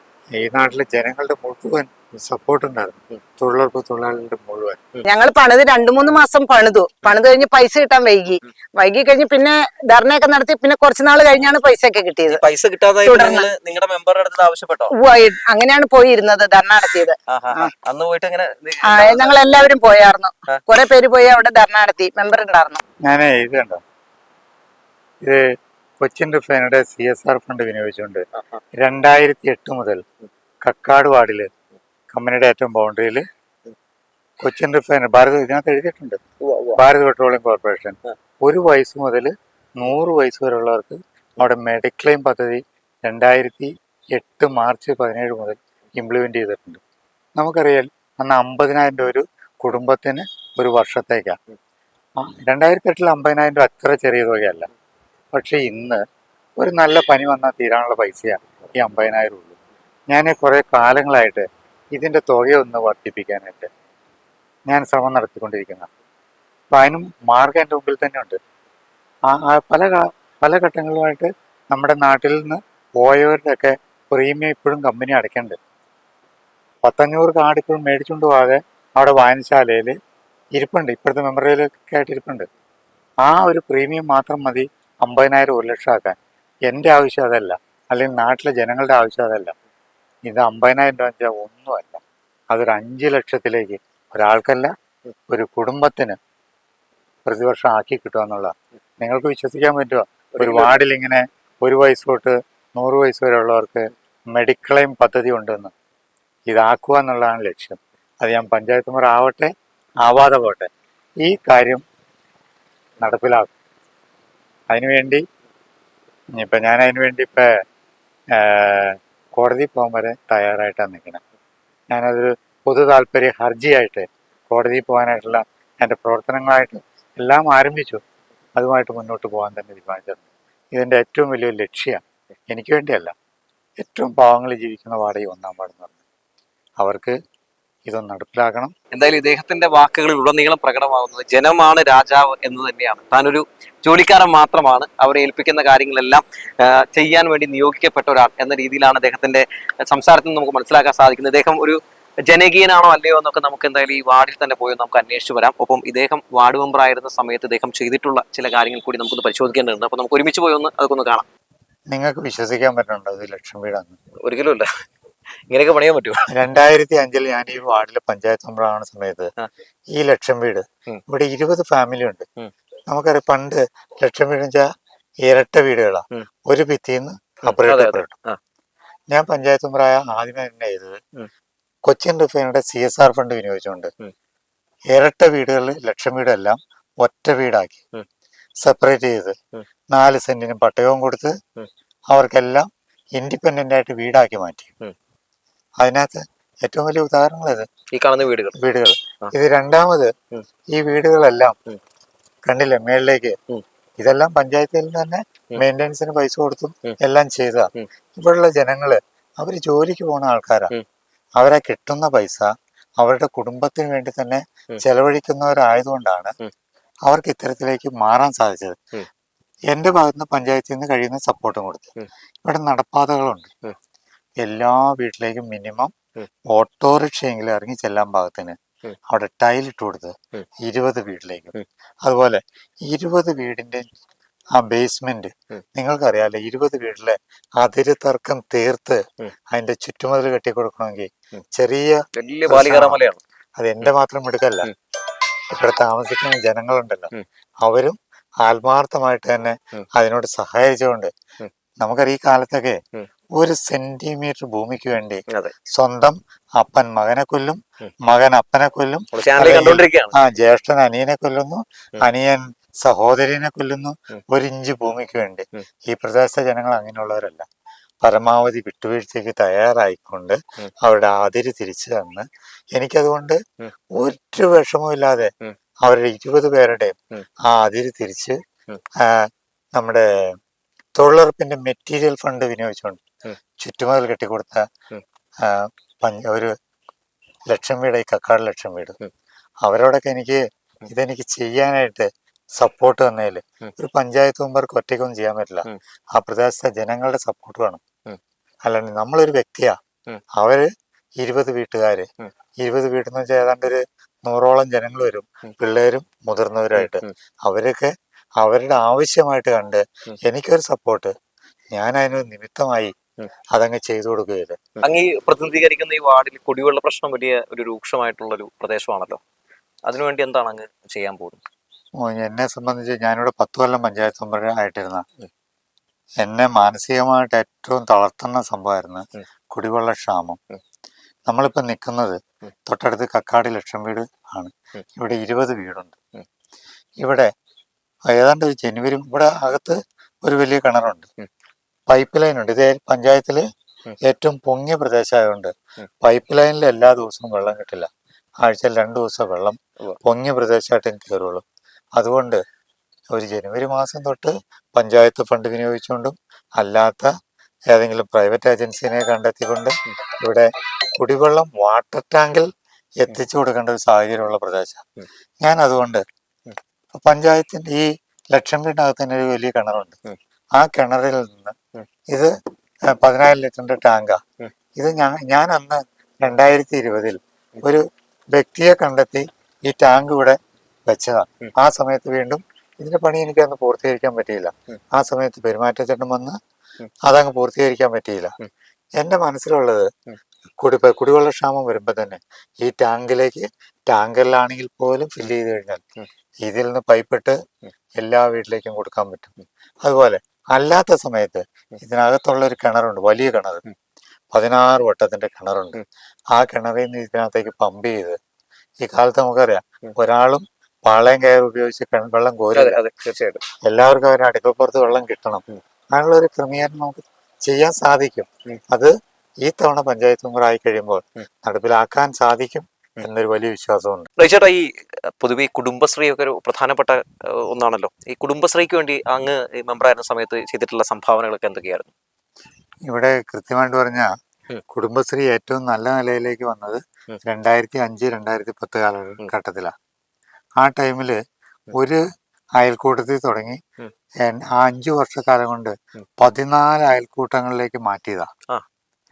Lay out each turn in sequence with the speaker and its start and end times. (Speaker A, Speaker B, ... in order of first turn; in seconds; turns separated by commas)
Speaker A: 0.3-4.8, Speaker B: 5.0-12.4, Speaker C: 12.3-14.9, Speaker B: 13.1-13.4, Speaker B: 14.9-17.7, Speaker C: 17.3-19.4, Speaker B: 18.8-22.8, Speaker A: 23.0-23.8, Speaker A: 25.2-30.0, Speaker A: 30.6-31.5, Speaker A: 32.1-33.2, Speaker A: 34.4-36.2, Speaker C: 36.4-36.8, Speaker A: 36.8-46.8, Speaker A: 47.4-51.4, Speaker A: 52.2-54.7, Speaker A: 55.3-56.0, Speaker A: 56.6-59.6, Speaker A: 60.1-63.7, Speaker A: 64.7-65.9, Speaker A: 66.7-68.4, Speaker A: 69.3-75.6, Speaker A: 76.8-80.0, Speaker A: 80.5-82.5, Speaker A: 83.2-89.5, Speaker A: 90.3-94.7, Speaker A: 95.3-96.2, Speaker A: 97.2-105.7, Speaker C: 100.4-100.7, Speaker A: 106.5-110.7, Speaker A: 111.2-111.8, Speaker A: 113.0-113.5, Speaker A: 114.7-115.2, Speaker A: 116.3-117.6, Speaker A: 118.3-121.2, Speaker A: 121.9-128.0, Speaker A: 128.6-133.1, Speaker A: 133.8-136.0, Speaker A: 136.8-137.2, Speaker A: 137.8-138.7, Speaker C: 138.9-161.2, Speaker A: 161.9-163.9, Speaker C: 164.2-164.7, Speaker C: 165.5-166.3, Speaker A: 166.3-169.3, Speaker A: 169.9-172.2, Speaker A: 172.9-174.7, Speaker A: 175.2-178.1, Speaker C: 177.5-178.4, Speaker A: 179.1-181.0, Speaker A: 181.8-183.9, Speaker A: 184.9-187.8, Speaker A: 188.6-189.3, Speaker A: 189.9-191.3, Speaker A: 192.1-194.7, Speaker A: 195.8-197.7, Speaker C: 197.9-198.6, Speaker A: 198.6-200.1, Speaker A: 200.7-201.6, Speaker A: 202.4-203.4, Speaker A: 204.0-210.7, Speaker A: 211.4-216.3, Speaker A: 217.0-218.8, Speaker A: 219.7-221.9, Speaker A: 222.4-223.5, Speaker A: 224.4-225.9, Speaker A: 226.5-228.6, Speaker A: 229.1-233.8, Speaker A: 234.5-243.0, Speaker C: 242.1-243.2, Speaker A: 243.6-244.7, Speaker A: 245.5-247.1, Speaker A: 247.6-251.1, Speaker A: 251.8-252.8, Speaker A: 253.3-267.4, Speaker C: 259.1-260.1, Speaker A: 268.0-273.4, Speaker A: 273.9-275.3, Speaker A: 275.8-278.4, Speaker A: 278.9-280.4, Speaker A: 280.9-283.0, Speaker A: 283.6-284.6, Speaker A: 285.4-286.5, Speaker A: 287.5-289.0, Speaker A: 289.6-297.8, Speaker A: 298.6-299.8, Speaker A: 300.3-302.1, Speaker A: 302.6-311.1, Speaker A: 311.7-312.9, Speaker A: 313.5-314.7, Speaker C: 314.8-319.2, Speaker C: 319.9-321.4, Speaker A: 322.0-325.0, Speaker A: 326.2-330.4, Speaker A: 331.3-335.9, Speaker A: 337.0-337.3, Speaker A: 338.1-341.1, Speaker A: 341.9-343.4, Speaker A: 344.0-347.9, Speaker A: 348.4-351.4, Speaker A: 351.9-352.4, Speaker A: 353.1-357.1, Speaker A: 357.7-364.8, Speaker A: 365.4-366.0, Speaker A: 366.9-370.0, Speaker A: 370.5-371.6, Speaker A: 372.1-372.3, Speaker A: 372.9-374.2, Speaker A: 374.8-386.4, Speaker A: 387.0-388.3, Speaker A: 389.0-389.9, Speaker A: 390.6-395.8, Speaker A: 396.4-397.4, Speaker A: 398.0-399.3, Speaker A: 399.8-403.6, Speaker A: 404.3-405.8, Speaker A: 406.3-408.2, Speaker A: 408.8-412.8, Speaker C: 412.5-413.4, Speaker A: 413.6-424.1, Speaker C: 424.2-424.7, Speaker C: 425.2-431.9, Speaker A: 432.9-434.1, Speaker A: 434.7-439.7, Speaker A: 440.6-441.2, Speaker A: 441.7-442.0, Speaker A: 442.6-443.6, Speaker A: 444.2-448.3